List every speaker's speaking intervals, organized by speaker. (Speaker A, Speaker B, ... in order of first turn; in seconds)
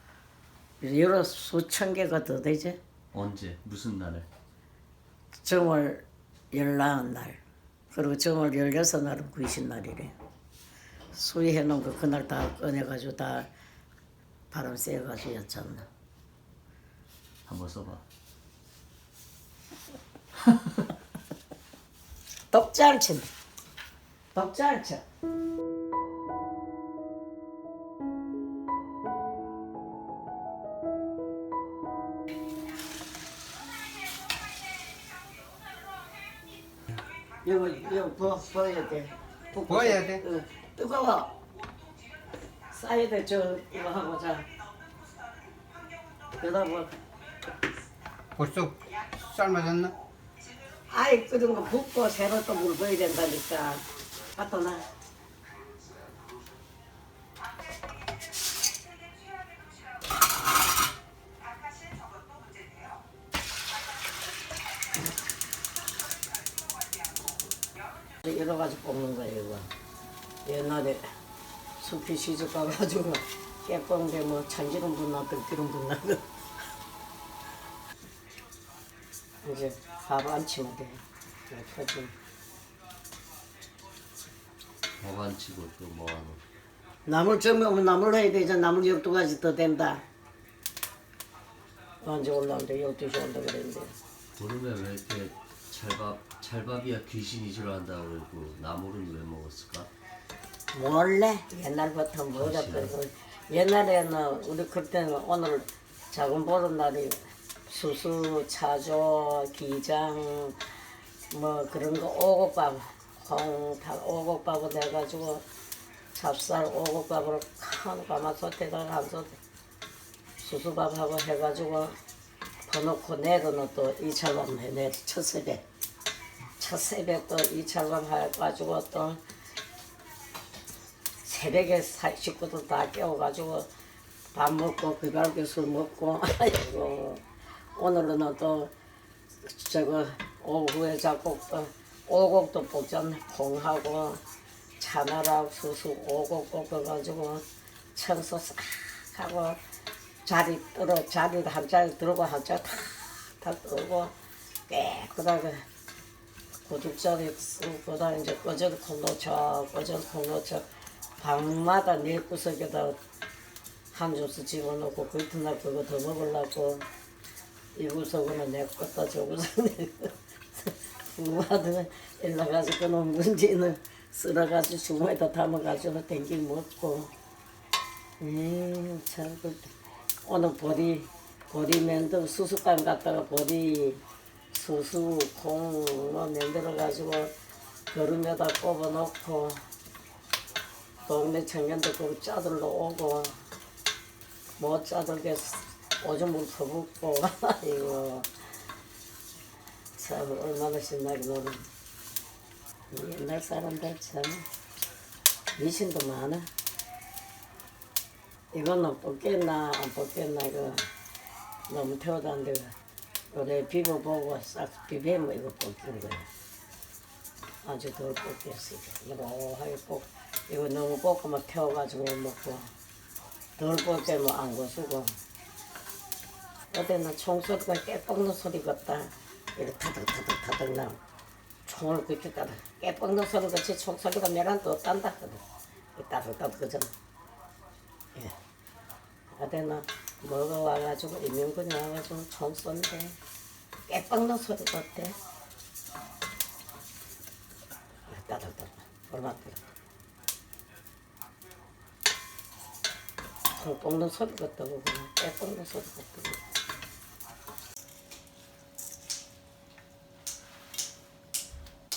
Speaker A: 0.8-2.8, 5.4-7.4, 7.9-10.1, 11.1-13.5, 14.5-15.9, 22.5-23.3, 24.3-25.0, 37.4-41.3, 42.7-44.5, 46.4-46.9, 50.9-53.8, 54.3-54.8, 68.2-69.7, 70.4-71.0, 71.8-76.2, 79.4-82.1, 87.0-90.0, 92.0-94.0, 100.7-110.7, 111.3-115.4, 116.1-119.4, 120.4-122.0, 122.7-125.6, 126.6-129.2, 131.2-133.7, 134.3-137.2, 137.7-138.7, 139.4-144.2, 144.8-147.4, 147.9-149.6, 150.2-154.1, 154.7-155.6, 156.7-160.6, 161.2-163.0, 163.9-166.8, 167.7-177.1, 178.2-179.7, 180.2-184.0, 184.5-187.3, 187.9-189.6, 191.1-193.4, 194.6-198.3, 199.9-201.7, 202.9-204.4, 205.5-206.5, 208.5-210.9, 211.7-212.7, 213.3-216.3, 217.6-222.7, 223.6-225.2, 226.7-231.0, 231.7-235.4, 235.9-236.9, 239.3-243.2, 243.9-245.2, 248.1-249.6, 253.5-256.4
Speaker B: 3.1-4.3, 17.4-18.0, 85.0-86.4, 94.3-99.9, 102.3-102.9
Speaker C: 39.7-40.2, 48.3-49.9